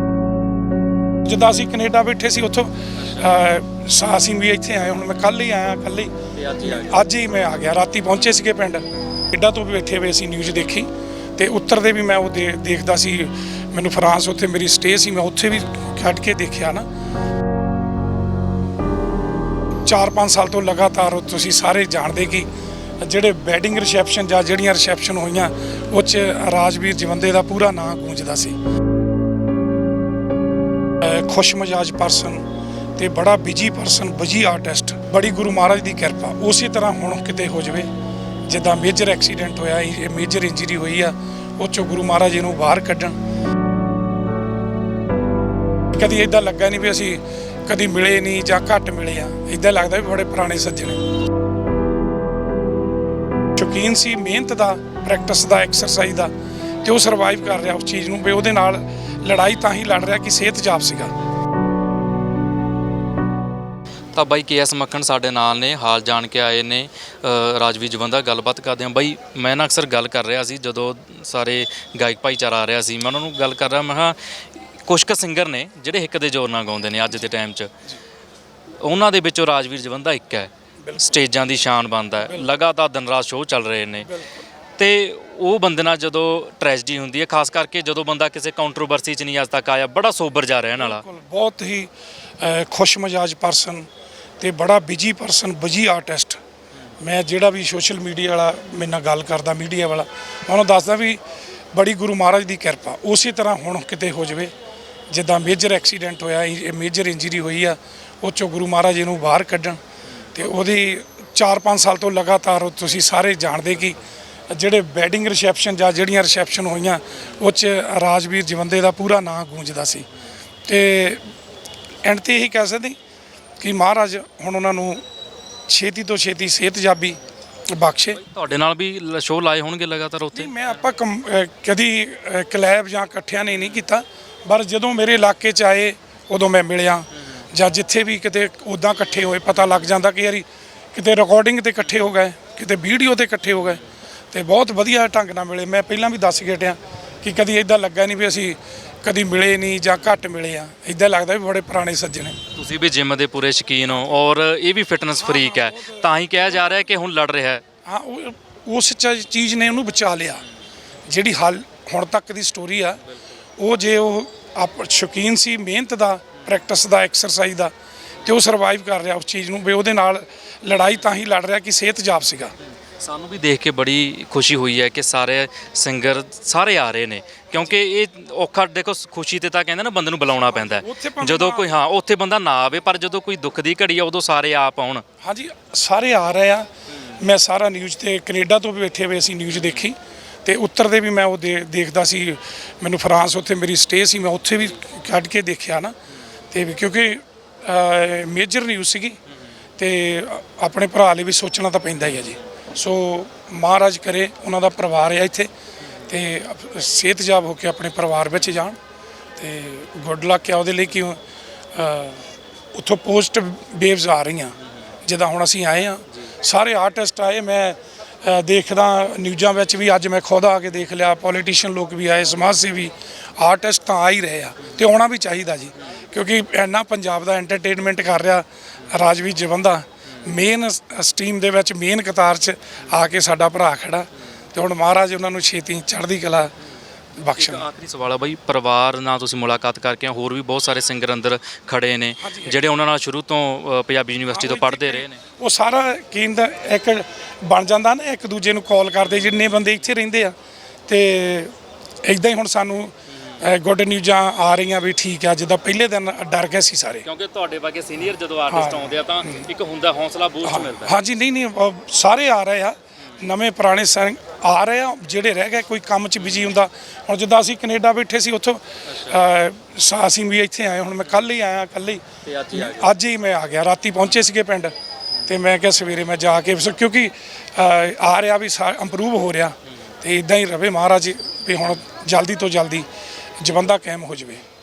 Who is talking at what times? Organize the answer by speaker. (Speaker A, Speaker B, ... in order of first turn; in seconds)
Speaker A: 1.2-16.9, 19.9-22.5, 23.0-28.6, 31.0-32.4, 33.0-37.9, 38.5-43.1, 45.9-51.0, 53.5-56.3, 56.8-61.1, 80.8-81.1, 90.8-93.9, 94.4-96.4, 97.0-101.2, 101.7-104.5, 105.1-109.8, 110.3-114.0, 114.5-120.0, 120.7-121.2, 122.0-123.0, 123.6-125.0, 125.7-127.2, 127.7-128.2, 130.3-152.4, 155.2-156.1, 157.8-160.4, 161.1-163.0, 163.6-172.5, 180.4-181.7, 185.2-195.9, 196.5-199.2, 199.8-205.5, 206.0-208.8, 209.4-211.2, 211.7-236.5, 237.2-237.7, 242.2-242.6, 244.3-250.3, 250.9-257.1, 258.5-259.5, 260.4-274.7, 275.2-282.9, 283.4-284.4
Speaker B: 3.0-3.3, 6.4-7.0, 64.1-77.7, 78.8-84.1, 84.8-91.0, 128.2-130.8, 152.5-157.6, 172.9-185.0, 189.5-189.8, 237.3-245.2, 249.2-249.5, 257.0-260.9, 268.9-269.2, 272.2-272.9